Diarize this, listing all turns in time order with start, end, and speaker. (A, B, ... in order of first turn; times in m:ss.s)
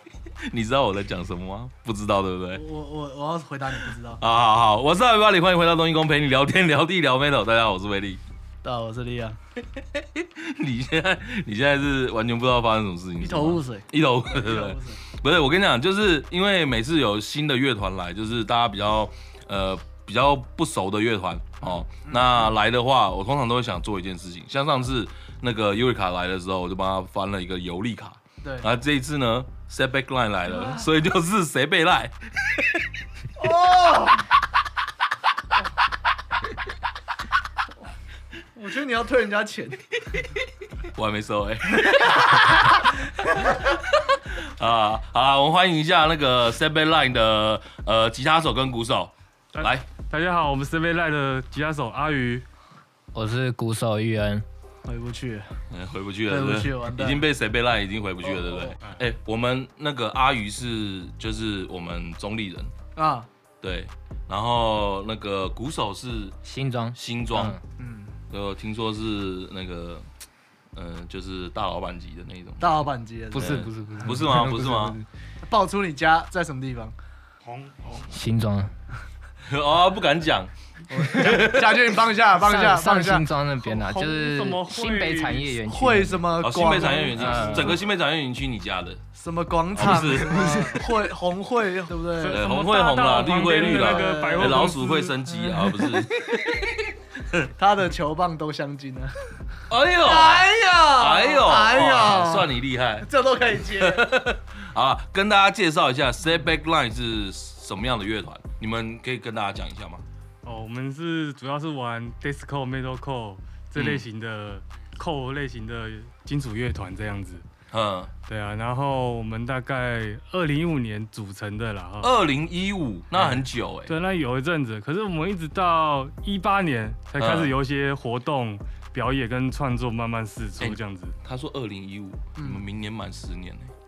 0:00.4-0:02.6 A
0:02.5-0:04.2 B
0:04.2-0:08.2 A
0:08.6-0:09.4 B
0:09.9-0:32.8 A
0:13.2-0:15.0 B
0:21.6-0:22.5 B
0:28.4-0:28.7 B
0:30.5-0:30.8 B
0:33.4-0:34.2 B
0:38.5-0:39.8 B
0:40.9-0:42.6 A
0:43.2-0:43.6 B
0:43.9-0:49.8 A
0:49.5-0:52.4 C
0:53.1-0:54.4 D
0:54.8-0:55.6 B
0:55.7-1:02.7 A
0:56.3-0:57.3 B
0:58.2-0:58.8 B
1:03.0-1:03.3 B
1:03.6-1:06.4 A
1:06.4-1:07.6 D
1:07.0-1:07.6 A
1:07.8-1:08.2 B
1:08.3-1:10.1 A
1:10.7-1:12.7 A
1:12.6-1:14.1 B
1:13.3-1:15.0 D
1:13.3-1:15.0 A
1:15.4-1:16.9 B
1:17.4-1:18.1 C
1:18.1-1:18.7 D
1:19.4-1:20.5 A
1:20.9-1:23.2 B
1:21.1-1:21.9 A
1:22.4-1:27.8 D
1:23.6-1:25.6 C
1:25.6-1:27.8 B
1:26.4-1:29.0 A
1:29.1-1:32.4 B
1:29.7-1:30.9 A
1:32.2-1:35.2 C
1:32.3-1:36.8 A
1:33.6-1:34.7 B
1:35.3-1:36.1 B
1:37.5-1:39.1 B
1:39.7-1:43.1 A
1:40.0-1:44.1 B
1:43.6-1:50.0 A
1:50.4-1:57.4 C
1:53.8-1:54.0 A
1:57.7-1:58.1 A
1:58.3-2:02.1 C
2:02.0-2:03.9 A
2:03.1-2:11.1 C
2:07.2-2:07.5 A
2:10.6-2:13.7 A
2:12.4-2:12.6 B